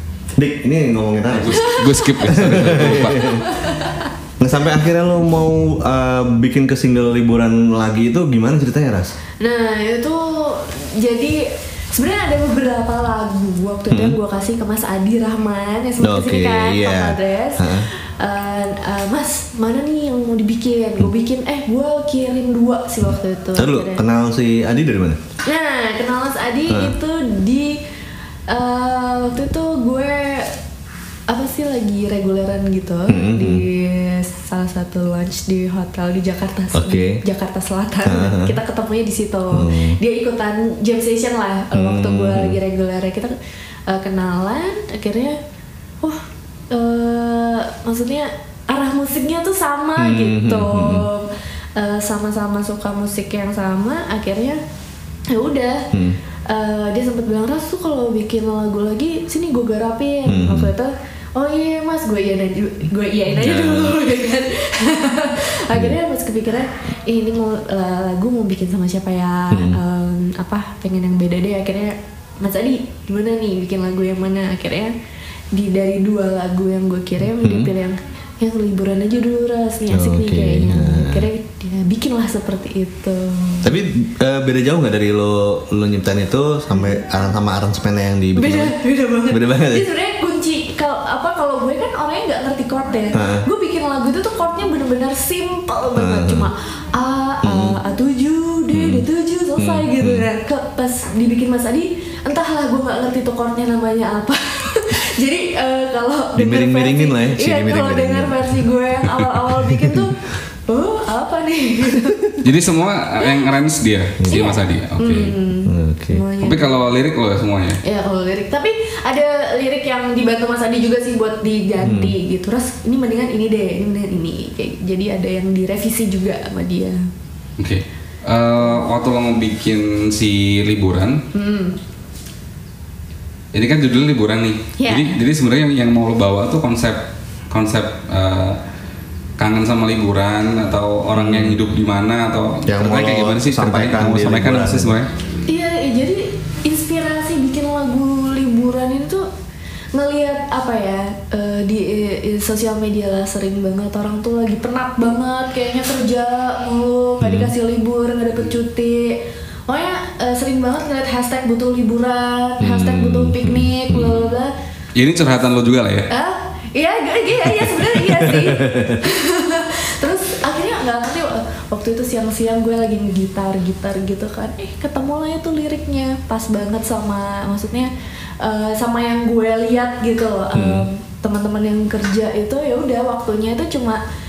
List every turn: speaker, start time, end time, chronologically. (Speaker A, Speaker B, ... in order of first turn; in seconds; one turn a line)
Speaker A: 0.4-3.4
Speaker B: 1.3-3.4
Speaker C: 3.2-4.0
Speaker A: 4.4-9.2
Speaker C: 9.4-24.0
Speaker A: 13.9-14.2
Speaker A: 16.0-17.9
Speaker A: 23.6-25.2
Speaker C: 25.4-27.8
Speaker A: 26.7-26.9
Speaker C: 28.5-30.6
Speaker C: 31.3-43.3
Speaker A: 33.1-33.6
Speaker A: 36.7-37.2
Speaker A: 38.0-38.6
Speaker A: 39.5-40.0
Speaker A: 41.7-42.6
Speaker C: 43.9-45.4
Speaker C: 46.7-54.6
Speaker A: 50.0-51.1
Speaker C: 55.3-55.9
Speaker A: 55.9-56.2
Speaker C: 56.5-75.0
Speaker A: 60.3-60.7
Speaker A: 63.4-64.0
Speaker A: 65.7-66.0
Speaker A: 69.5-69.8
Speaker C: 75.5-83.7
Speaker A: 77.4-77.7
Speaker A: 79.9-81.3
Speaker A: 83.6-88.8
Speaker C: 88.3-112.4
Speaker A: 89.3-89.9
Speaker A: 93.1-93.5
Speaker A: 96.0-96.5
Speaker A: 97.4-97.8
Speaker A: 98.7-99.0
Speaker A: 99.6-100.3
Speaker A: 106.4-108.5
Speaker B: 112.4-115.4
Speaker A: 114.2-114.5
Speaker C: 114.3-116.9
Speaker A: 115.7-116.2
Speaker B: 116.4-117.8
Speaker C: 117.8-127.1
Speaker A: 121.8-122.2
Speaker B: 127.6-131.2
Speaker C: 131.3-131.8
Speaker B: 133.5-138.6
Speaker C: 134.8-135.2
Speaker B: 139.4-145.1
Speaker A: 141.1-141.7
Speaker A: 142.7-144.9
Speaker C: 145.5-149.3
Speaker C: 149.9-164.5
Speaker A: 157.2-157.5
Speaker A: 162.6-164.3
Speaker B: 165.0-166.1
Speaker C: 166.1-177.9
Speaker A: 167.8-169.0
Speaker C: 178.4-184.0
Speaker A: 180.5-180.9